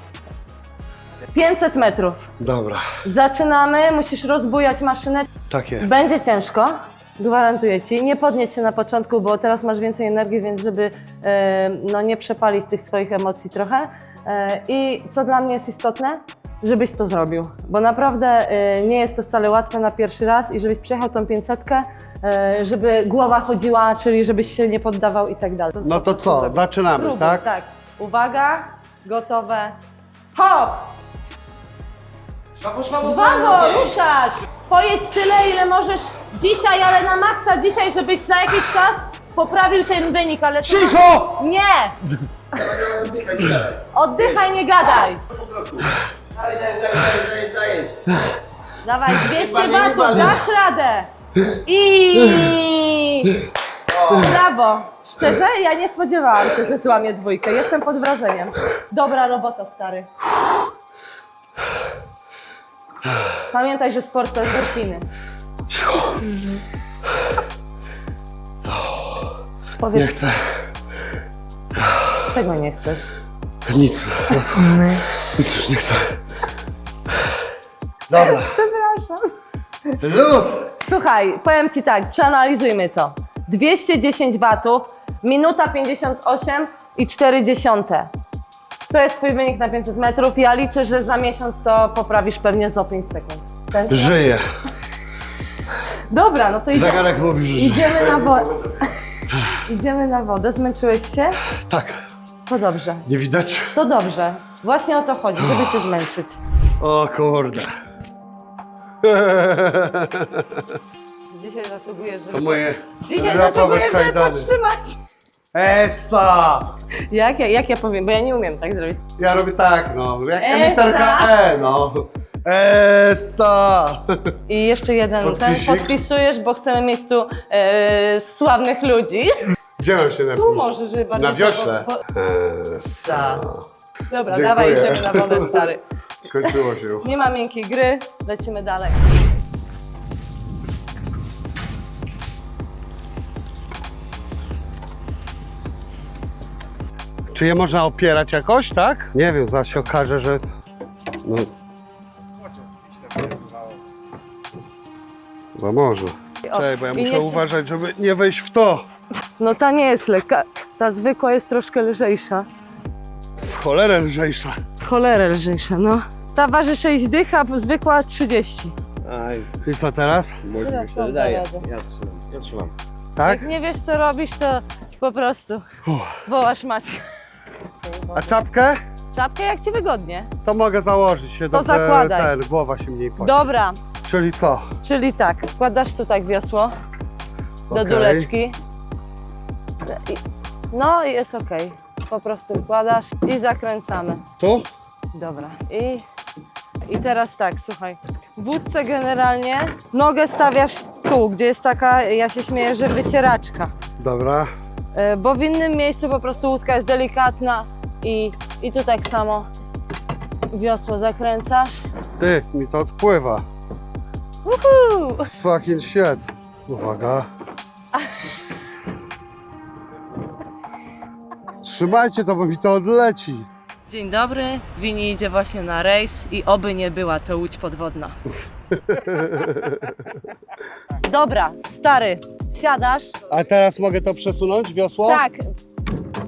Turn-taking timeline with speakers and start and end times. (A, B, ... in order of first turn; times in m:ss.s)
0:01.3-0:02.3 A
0:02.4-0:02.9 B
0:03.0-0:05.3 A
0:05.5-0:05.9 B
0:05.8-0:29.8 A
0:25.8-0:27.4 B
0:30.4-0:30.9 A
0:32.6-0:33.9 C
0:33.0-0:42.0 A
0:40.8-0:41.2 B
0:42.6-0:43.8 C
0:43.9-0:45.2 A
0:45.4-0:48.1 C
0:48.8-0:51.1 A
0:49.3-0:50.4 C
0:51.6-0:53.3 A
0:52.2-0:52.6 B
0:54.1-1:00.1 A
1:03.0-1:03.4 B
1:03.5-1:05.1 A
1:05.7-1:06.3 B
1:08.7-1:09.3 B
1:09.8-1:10.1 A
1:09.9-1:10.5 B
1:12.2-1:13.1 A
1:13.7-1:16.2 B
1:18.1-1:18.6 B
1:18.1-1:19.3 A
1:20.0-1:20.7 B
1:20.8-1:28.1 A
1:28.9-1:34.2 A
1:33.9-1:34.4 B
1:36.1-1:39.0 A
1:36.7-1:38.2 B
1:39.7-1:41.4 A
1:41.6-1:42.0 B
1:42.5-1:43.0 A
1:43.0-1:43.7 B
1:43.8-1:46.4 A
1:45.5-1:45.8 B
1:46.8-1:47.8 B
1:49.0-1:50.8 B
1:51.3-1:55.0 A
1:52.3-1:54.5 B
1:55.5-1:56.8 B
1:57.1-1:59.0 A
1:59.2-2:04.4 B
2:00.4-2:01.3 A
2:04.5-2:09.3 A
2:05.2-2:06.0 B
2:09.8-2:13.7 B
2:10.4-2:12.0 A
2:12.8-2:13.4 A
2:14.1-2:15.8 A
2:14.3-2:15.6 B
2:16.2-2:17.1 B
2:17.0-2:19.2 A
2:27.3-2:30.5 B
2:31.2-2:31.5 B
2:35.6-2:38.9 B
2:36.4-2:37.4 A
2:39.4-2:42.5 A
2:43.4-2:44.6 B
2:44.8-2:48.8 A
2:49.0-2:49.5 C
2:49.6-2:50.4 B
2:50.4-2:52.7 C
2:50.6-2:51.6 A
2:53.2-2:53.5 B
2:53.2-2:55.6 A
2:55.9-2:56.2 B
2:56.3-2:57.1 A
2:57.8-2:58.4 A
2:58.1-2:58.8 B
2:59.1-3:00.3 A
3:00.4-3:03.5 B
3:01.5-3:02.3 A
3:03.2-3:03.8 A
3:04.0-3:04.6 B
3:04.8-3:06.7 A
3:07.7-3:08.3 B
3:07.7-3:08.6 A
3:09.9-3:14.2 A
3:14.4-3:14.7 B
3:15.1-3:16.0 A
3:16.9-3:23.7 A
3:24.0-3:24.5 B
3:25.0-3:29.5 A
3:30.5-3:31.8 A
3:32.2-3:33.4 B
3:34.4-3:35.3 A
3:35.3-3:37.3 B
3:41.6-3:43.5 B
3:43.9-3:48.2 A
3:48.7-3:50.0 B
3:51.0-3:53.1 A
3:53.3-3:55.2 B
3:55.1-3:55.5 A